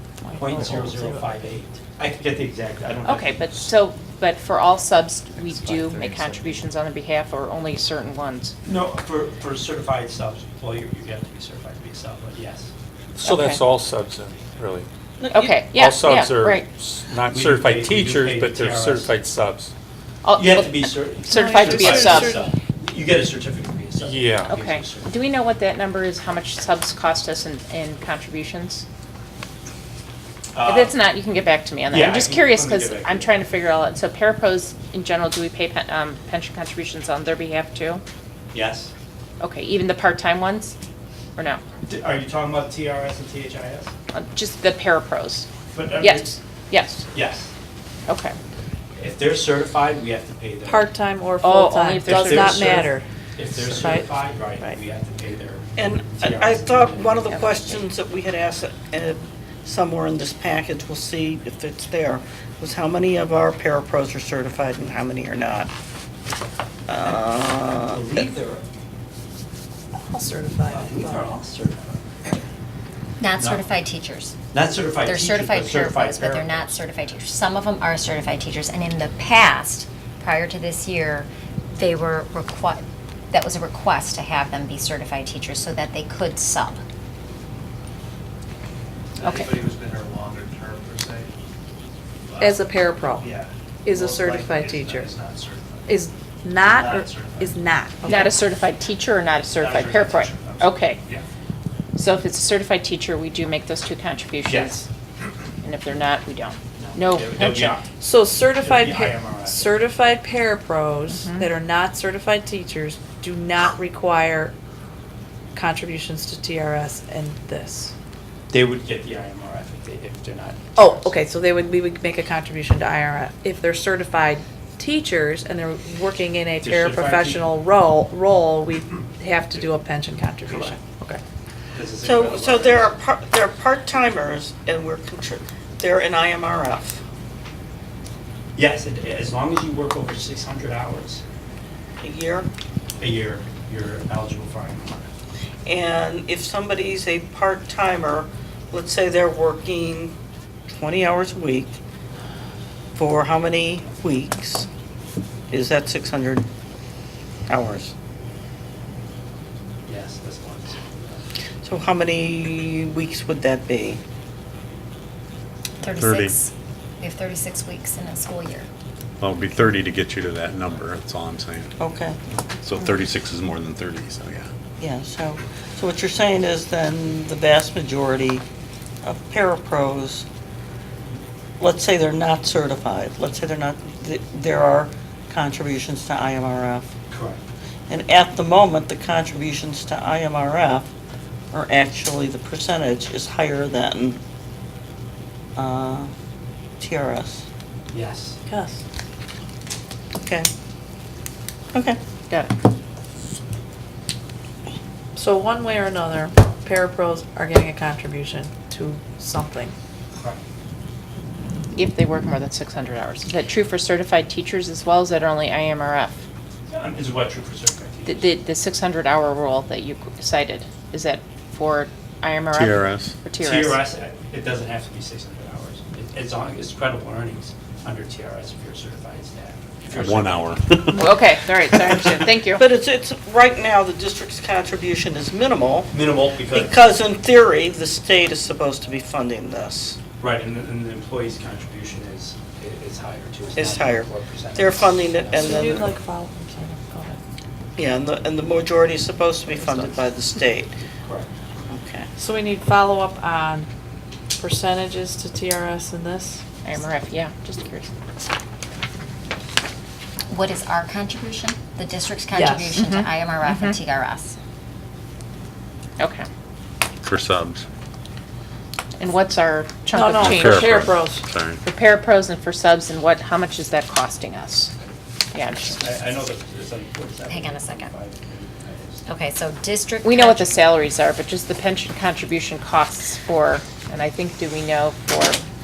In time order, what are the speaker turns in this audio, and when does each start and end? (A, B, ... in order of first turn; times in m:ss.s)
0:00.2-0:01.3 A
0:00.4-0:03.7 B
0:03.0-0:08.6 C
0:05.4-0:06.6 B
0:08.6-0:12.7 B
0:13.2-0:14.9 D
0:13.2-0:13.6 C
0:15.2-0:15.6 E
0:15.3-0:16.7 C
0:15.7-0:19.7 D
0:17.2-0:19.1 B
0:20.2-0:22.4 C
0:20.3-0:25.1 B
0:21.2-0:22.5 A
0:24.0-0:24.6 D
0:24.5-0:28.8 C
0:30.5-0:31.0 B
0:30.6-0:38.0 C
0:31.9-0:33.3 B
0:38.5-0:38.9 B
0:39.4-0:40.8 C
0:41.4-0:41.6 C
0:41.9-0:43.9 B
0:44.1-0:47.0 C
0:45.7-0:46.4 B
0:47.1-0:47.5 B
0:48.1-0:48.4 C
0:49.0-0:50.9 B
0:50.6-0:53.0 A
0:51.4-0:52.9 C
0:52.1-0:57.9 B
0:53.6-0:54.8 A
0:55.8-1:05.7 E
1:06.9-1:08.1 E
1:07.8-1:08.6 B
1:10.0-1:11.4 A
1:10.7-1:12.4 B
1:13.2-1:14.4 F
1:13.4-1:13.7 B
1:14.5-1:16.8 B
1:15.0-1:26.8 F
1:29.2-1:31.3 G
1:29.2-1:29.5 C
1:29.4-1:31.2 B
1:32.3-1:32.6 B
1:32.4-1:33.3 A
1:33.2-1:35.4 G
1:33.8-1:35.1 A
1:34.0-1:35.8 B
1:35.9-1:38.4 A
1:36.6-1:37.5 G
1:36.7-1:37.4 B
1:38.0-1:41.0 C
1:39.6-1:41.2 B
1:41.9-1:44.8 C
1:44.5-1:44.8 B
1:45.6-1:47.8 C
1:46.8-1:49.8 B
1:48.0-1:54.5 A
1:51.1-1:51.5 C
1:55.5-1:57.9 A
1:58.5-2:01.2 B
2:00.8-2:11.2 A
2:06.6-2:07.5 B
2:10.5-2:10.8 B
2:11.8-2:12.9 B
2:12.0-2:17.0 E
2:18.6-2:21.2 B
2:22.0-2:22.5 E
2:23.0-2:25.1 B
2:25.7-2:30.2 E
2:30.7-2:31.8 E
2:32.9-2:34.7 E
2:35.5-2:36.4 E
2:37.5-2:37.9 E
2:39.9-2:41.2 B
2:41.6-2:44.0 E
2:45.8-2:48.7 F
2:46.0-2:46.4 H
2:49.2-2:51.7 H
2:51.8-2:52.2 E
2:52.6-2:54.5 H
2:54.8-2:58.4 E
2:59.0-3:00.2 E
3:01.6-3:06.9 E
3:07.1-3:07.4 B
3:07.9-3:10.9 E
3:11.5-3:14.2 E
3:15.6-3:16.1 E
3:16.8-3:17.4 E
3:17.9-3:18.4 B
3:18.5-3:18.8 A
3:20.2-3:20.5 E
3:21.7-3:22.0 E
3:25.2-3:29.7 A
3:31.7-3:36.2 C
3:36.7-3:38.3 B
3:38.1-3:43.8 C
3:42.5-3:43.1 H
3:43.4-3:50.7 B
3:49.9-3:51.0 H
3:50.9-3:52.6 C
3:52.6-3:55.9 E
3:55.9-3:56.8 B
3:56.5-4:00.0 E
4:00.2-4:05.9 B
4:03.6-4:05.9 E
4:05.3-4:07.2 A
4:07.8-4:10.7 E
4:11.7-4:12.1 E
4:12.2-4:13.7 A
4:14.4-4:16.4 A
4:16.6-4:17.9 C
4:20.3-4:24.4 F
4:22.3-4:22.8 A
4:22.8-4:23.8 C
4:26.0-4:26.3 C
4:27.0-4:27.6 H
4:29.0-4:30.9 C
4:29.9-4:31.2 A
4:30.2-4:31.6 H
4:31.6-4:34.7 C
4:35.3-4:35.9 C
4:35.7-4:39.0 B
4:37.3-4:37.9 F
4:39.1-4:40.7 F
4:40.0-4:45.4 C